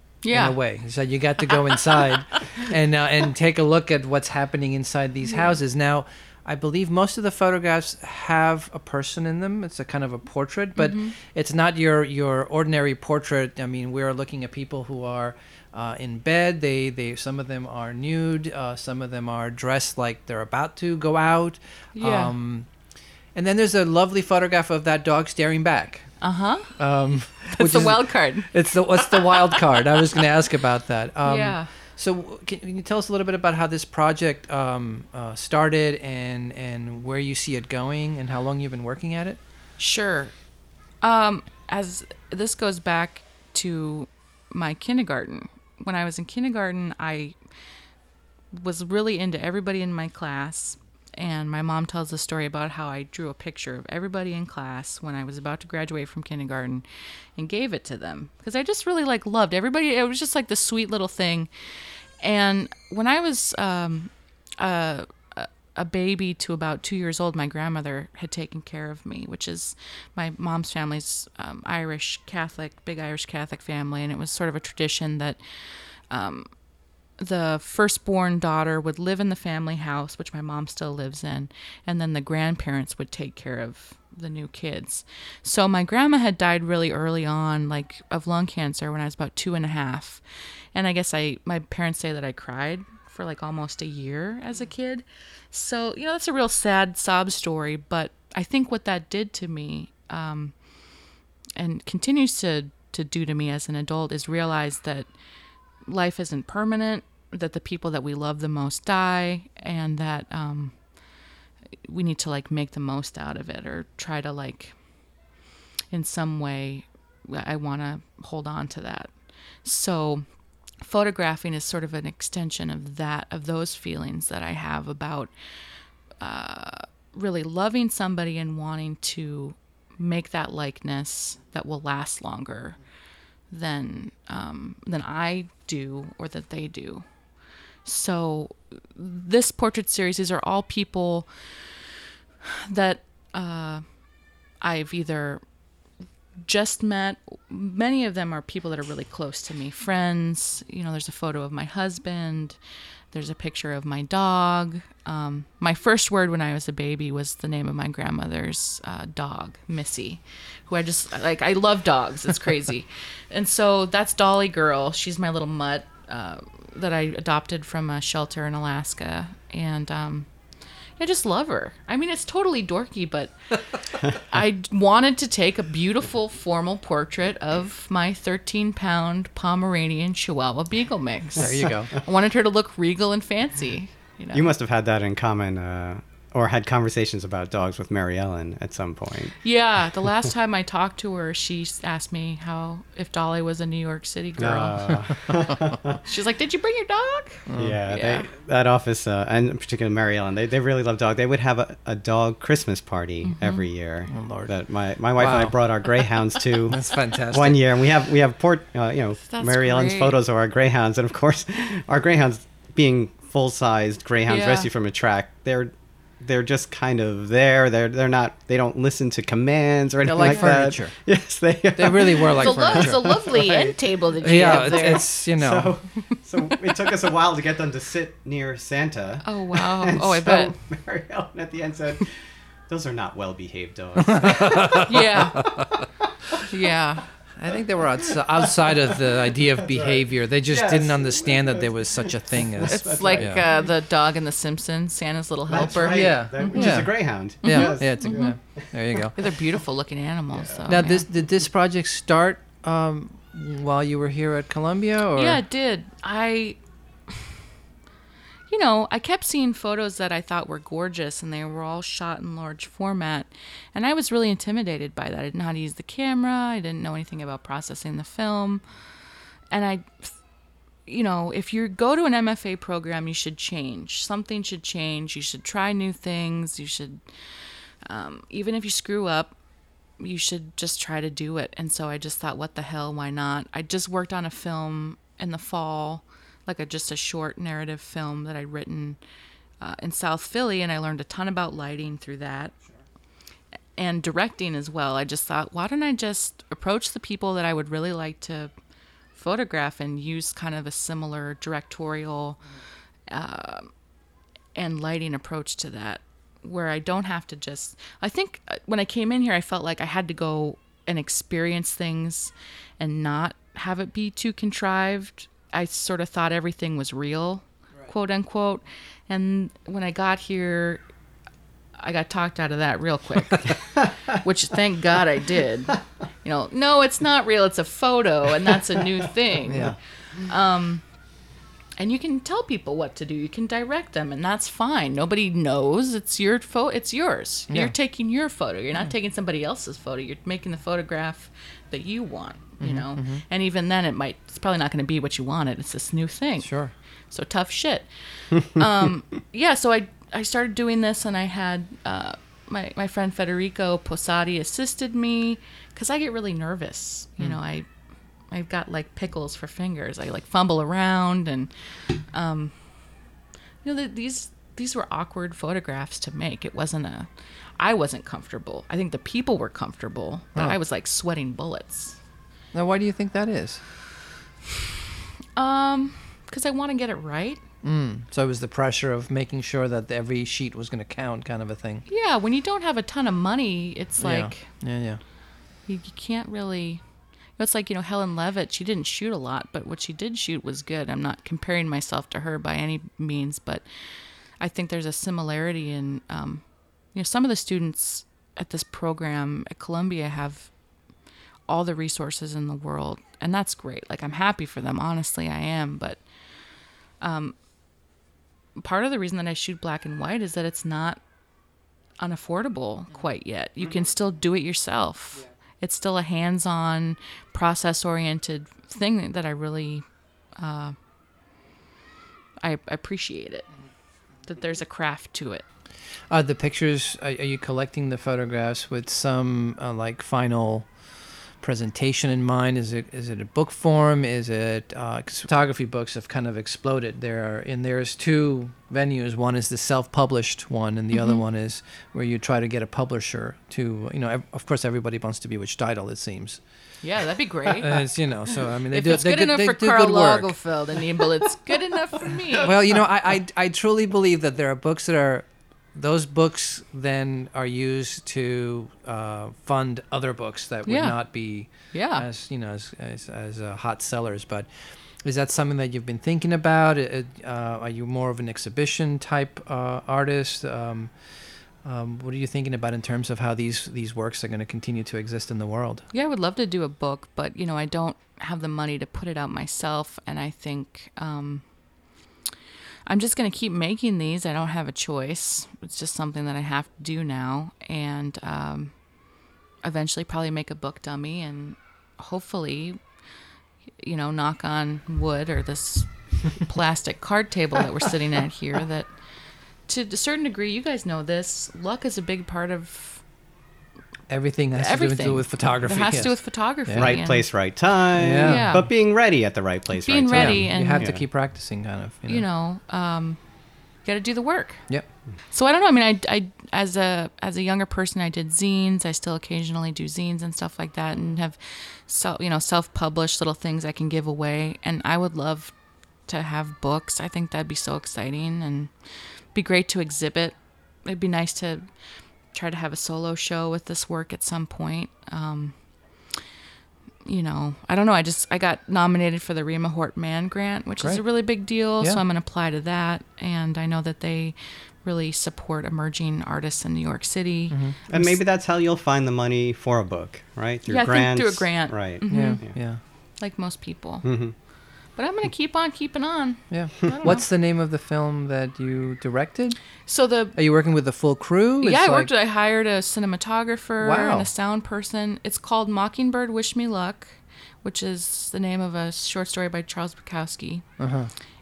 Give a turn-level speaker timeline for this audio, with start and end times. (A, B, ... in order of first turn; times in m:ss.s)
0:00.2-0:00.6 A
0:00.3-0:22.7 B
0:05.3-0:05.6 A
0:10.8-0:11.1 A
0:22.0-0:22.3 A
0:23.4-0:26.2 B
0:26.2-0:26.8 A
0:26.8-0:39.4 B
0:27.5-0:29.6 A
0:31.2-0:31.7 A
0:39.8-0:40.4 A
0:41.0-0:47.4 A
0:48.6-0:56.8 A
0:57.4-1:01.5 A
1:02.2-1:15.4 A
1:16.1-1:16.5 A
1:17.2-1:30.2 A
1:30.7-1:40.6 A
1:41.6-1:45.1 A
1:45.9-1:50.9 A
1:51.8-1:54.8 A
1:55.9-1:59.1 A
1:59.6-2:00.2 A
2:00.8-2:05.3 A
2:06.2-2:12.8 A
2:13.5-2:17.1 A
2:17.8-2:21.3 A
2:22.5-2:23.8 A
2:24.6-2:25.4 A
2:26.4-2:32.6 A
2:33.1-2:50.3 A
2:51.0-3:04.5 A
3:01.4-3:02.0 B
3:04.3-3:09.4 C
3:09.4-3:15.3 A
3:14.4-3:16.0 C
3:16.0-3:18.3 A
3:17.5-3:17.8 B
3:17.6-3:43.8 C
3:23.2-3:23.6 A
3:24.1-3:24.6 B
3:25.2-3:25.6 B
3:26.7-3:27.8 B
3:29.3-3:30.2 A
3:34.3-3:34.7 A
3:40.1-3:41.0 B
3:41.8-3:43.1 B
3:42.4-3:45.1 A
3:44.2-3:45.8 B
3:44.4-3:52.1 C
3:46.1-3:46.6 A
3:49.2-3:50.5 A
3:52.7-3:55.0 C
3:54.0-3:55.8 B
3:54.9-3:55.5 A
3:56.0-3:56.4 C
3:56.5-3:57.1 A
3:57.4-4:03.4 B
3:58.0-3:59.0 C
3:59.6-4:03.5 C
4:02.6-4:06.9 A
4:05.5-4:08.4 C
4:05.9-4:09.2 B
4:07.4-4:08.4 A
4:09.2-4:11.0 A
4:10.3-4:10.7 C
4:10.7-4:15.4 B
4:15.2-4:16.6 A
4:18.5-4:28.6 A
4:29.5-4:30.1 A
4:30.9-4:37.0 A
4:37.8-4:39.4 A
4:40.0-4:49.0 A
4:49.6-4:52.5 A
4:53.8-4:58.5 A
4:59.2-5:02.4 A
5:03.1-5:03.7 A
5:04.6-5:20.8 A
5:21.8-5:30.8 A
5:29.5-5:29.8 B
5:31.8-5:57.7 A
5:42.6-5:43.2 B
5:46.4-5:46.7 B
5:58.3-6:01.5 A
6:02.1-6:02.6 A
6:03.6-6:07.1 A
6:07.6-6:12.0 A
6:12.5-6:13.6 B
6:15.4-6:17.4 A
6:17.6-6:21.9 B
6:21.9-6:24.5 A
6:24.0-6:25.0 B
6:25.7-6:26.8 A
6:27.4-6:33.7 A
6:34.3-6:40.5 A
6:41.5-6:46.0 A
6:47.0-6:47.4 A
6:48.6-6:51.0 A
6:52.0-6:59.9 A
7:00.4-7:00.8 A
7:02.4-7:03.5 A
7:04.3-7:05.4 A
7:06.1-7:26.4 B
7:20.9-7:21.2 A
7:26.8-7:27.8 A
7:27.5-7:30.4 B
7:28.7-7:32.5 A
7:32.4-7:55.9 B
7:40.7-7:42.0 A
7:55.9-8:01.4 A
8:02.9-8:08.8 A
8:09.6-8:12.8 A
8:13.8-8:19.0 A
8:19.6-8:23.0 A
8:24.1-8:27.0 B
8:24.6-8:27.3 A
8:26.8-8:31.0 C
8:28.0-8:28.6 B
8:28.2-8:28.7 A
8:29.8-8:31.0 A
8:30.1-8:32.2 B
8:32.1-8:33.2 A
8:33.8-8:34.7 A
8:35.3-8:45.5 A
8:46.1-8:48.7 A
8:49.3-8:51.7 A
8:52.3-8:55.6 A
8:57.0-9:08.1 A
9:00.8-9:02.0 B
9:07.5-9:08.0 B
9:07.9-9:12.6 C
9:10.7-9:14.1 A
9:12.1-9:12.8 B
9:14.0-9:14.3 C
9:14.9-9:17.3 A
9:16.5-9:22.1 B
9:19.9-9:20.4 A
9:21.6-9:30.7 A
9:23.8-9:24.3 B
9:30.8-9:31.1 B